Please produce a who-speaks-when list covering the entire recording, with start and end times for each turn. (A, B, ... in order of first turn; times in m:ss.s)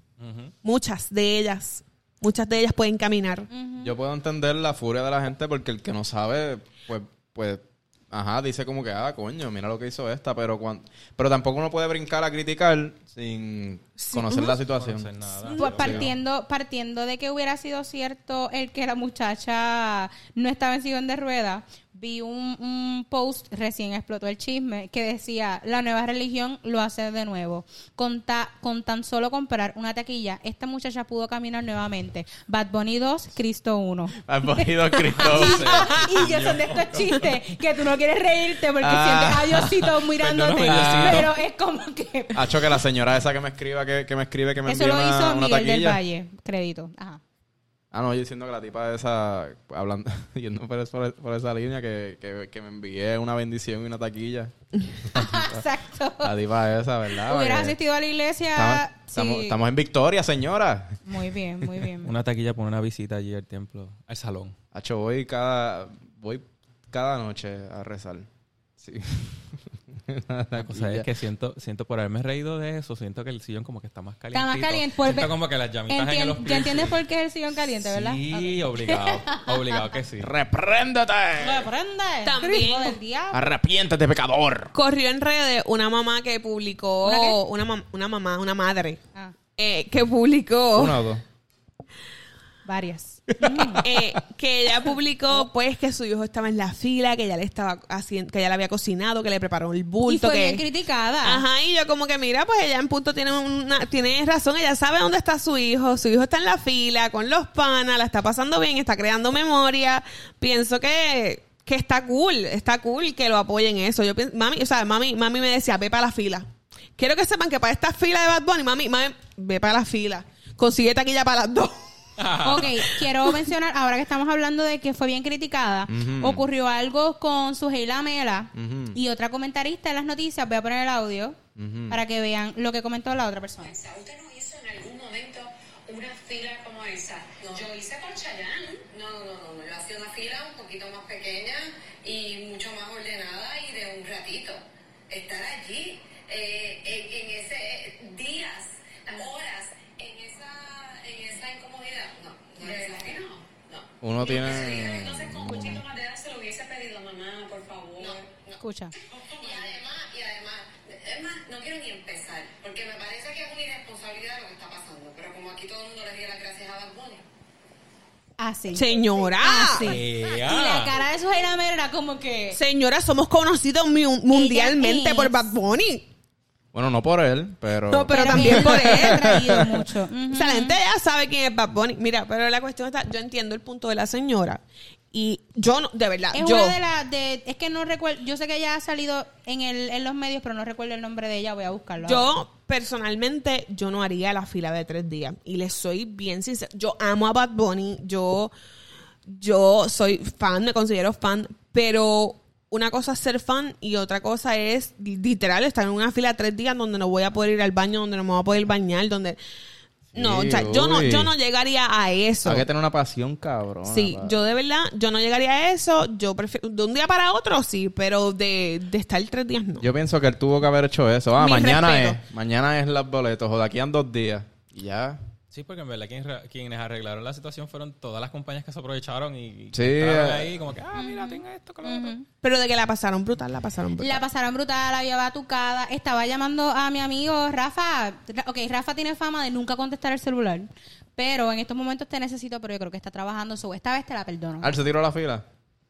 0:00.2-0:00.5 A
0:00.6-0:03.5 B
0:03.5-0:03.9 C
0:03.8-0:16.1 D
0:14.0-0:14.6 B
0:14.7-0:16.1 A
0:15.5-0:42.8 C
0:34.2-0:36.3 D
0:35.2-0:37.2 A
0:38.8-0:40.0 D
0:40.2-0:41.3 A
0:40.6-0:41.3 D
0:42.3-0:46.0 D
0:44.6-0:47.2 C
0:47.9-0:55.6 D
0:55.1-0:56.3 C
0:56.2-0:57.8 D
0:57.1-0:59.6 C
0:58.5-1:01.0 D
1:01.0-1:02.1 C
1:02.0-1:04.5 A
1:04.7-1:08.3 D
1:08.8-1:11.1 D
1:10.5-1:17.0 A
1:14.3-1:15.3 C
1:15.9-1:19.8 C
1:17.7-1:20.3 A
1:20.2-1:21.7 D
1:21.4-1:23.4 C
1:22.2-1:23.0 B
1:23.3-1:24.7 D
1:24.7-1:29.0 B
1:27.0-1:27.4 C
1:29.6-1:31.0 B
1:30.7-1:31.2 D
1:32.6-1:33.9 C
1:33.4-1:34.1 D
1:33.8-1:40.6 B
1:40.0-1:41.4 C
1:41.2-2:01.8 B
2:02.2-2:02.9 A
2:02.4-2:11.4 C
2:05.9-2:06.4 D
2:08.5-2:09.0 D
2:11.6-2:12.0 D
2:11.9-2:13.8 C
2:13.6-2:47.2 E
2:34.0-2:35.8 D
2:38.6-2:38.9 C
2:48.4-2:48.8 C
2:48.7-2:49.9 B
2:49.4-2:52.6 C
2:49.7-2:51.0 A
2:52.5-2:56.1 B
2:54.3-2:55.5 C
2:56.7-2:59.8 D
2:57.9-2:59.4 B
2:58.1-3:00.8 C
3:00.3-3:06.8 B
3:06.3-3:12.3 C
3:12.0-3:18.5 B
3:19.3-3:29.4 B
3:30.1-3:31.3 D
3:30.1-3:32.6 B
3:32.4-3:34.4 D
3:33.8-3:39.9 B
3:39.8-3:45.2 D
3:41.4-3:42.2 B
3:45.5-3:52.2 A
3:49.7-3:50.5 D
3:50.9-3:52.2 C
3:52.4-3:54.2 B
3:54.0-4:04.7 C
4:04.6-4:05.4 D